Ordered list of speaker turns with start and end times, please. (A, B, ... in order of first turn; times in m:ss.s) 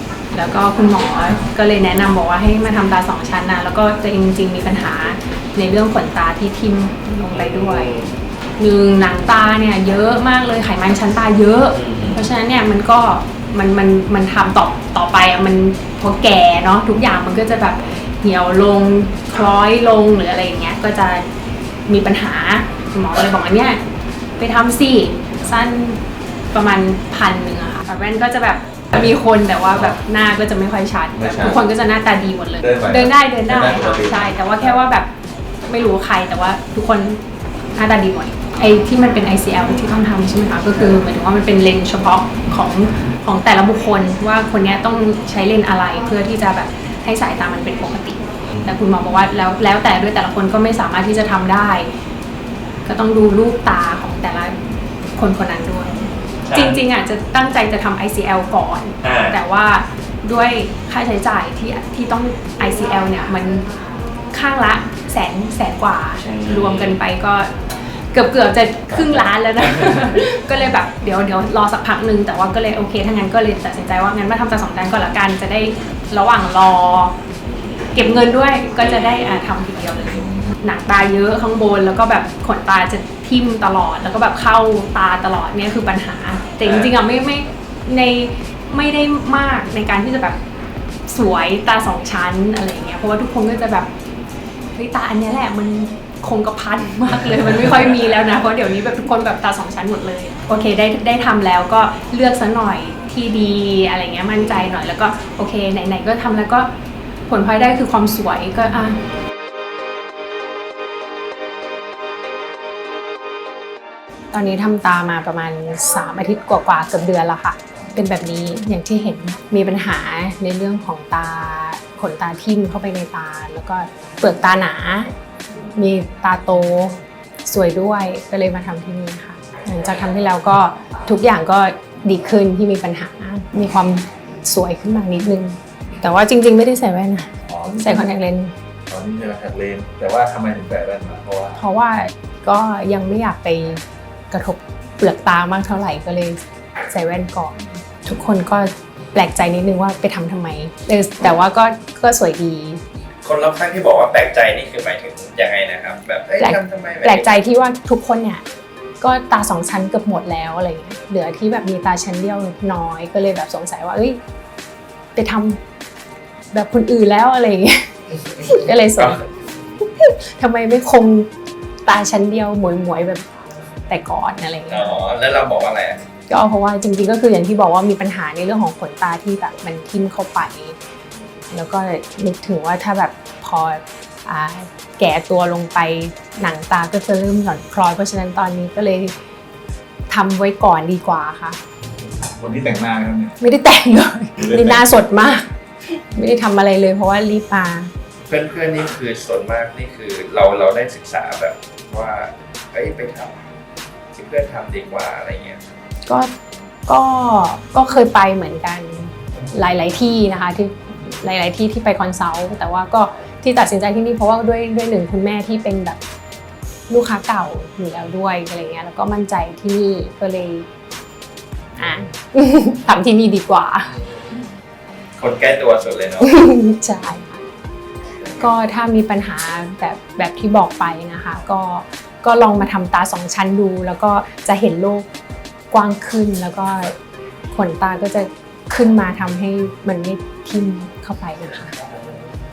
0:00.3-0:07.9 A
0:07.3-0:08.1 B
0:08.6-0:21.2 A
0:11.7-0:12.2 B
0:21.9-0:23.8 A
0:24.4-0:26.0 A
0:26.5-0:35.1 A
0:31.2-0:31.6 C
0:32.6-0:34.7 C
0:35.7-0:37.2 A
0:37.7-0:51.9 A
0:52.8-0:54.6 A
0:55.2-0:56.0 A
0:56.4-0:56.8 B
0:56.5-1:03.7 A
0:59.0-0:59.4 B
1:04.3-1:17.1 A
1:06.2-1:07.0 B
1:17.6-1:17.9 B
1:17.9-1:30.4 A
1:18.8-1:19.5 B
1:26.6-1:26.9 B
1:31.1-1:33.9 A
1:34.8-1:46.7 A
1:47.3-1:49.0 A
1:54.3-2:05.1 A
2:05.8-2:18.5 A
2:17.5-2:18.0 C
2:18.9-2:21.6 C
2:21.6-2:32.8 A
2:33.2-2:37.4 B
2:36.4-2:38.4 A
2:39.0-2:44.2 A
2:45.2-2:45.6 A
2:46.5-2:47.9 A
2:48.4-2:49.2 A
2:49.8-2:51.3 A
2:51.8-2:53.2 A
2:53.9-2:54.9 A
2:54.7-2:56.0 B
2:56.3-3:00.8 A
3:01.5-3:09.1 A
3:10.1-3:11.6 A
3:12.2-3:13.4 C
3:13.4-3:17.9 A
3:14.4-3:14.9 C
3:18.3-3:23.4 B
3:24.1-3:25.6 B
3:26.1-3:26.3 A
3:26.9-3:36.0 A
3:36.9-3:40.7 A
3:41.8-3:43.9 A
3:45.2-3:46.3 B
3:46.2-3:47.4 A
3:48.3-3:55.1 A
3:55.7-3:57.0 A
3:57.5-4:01.7 A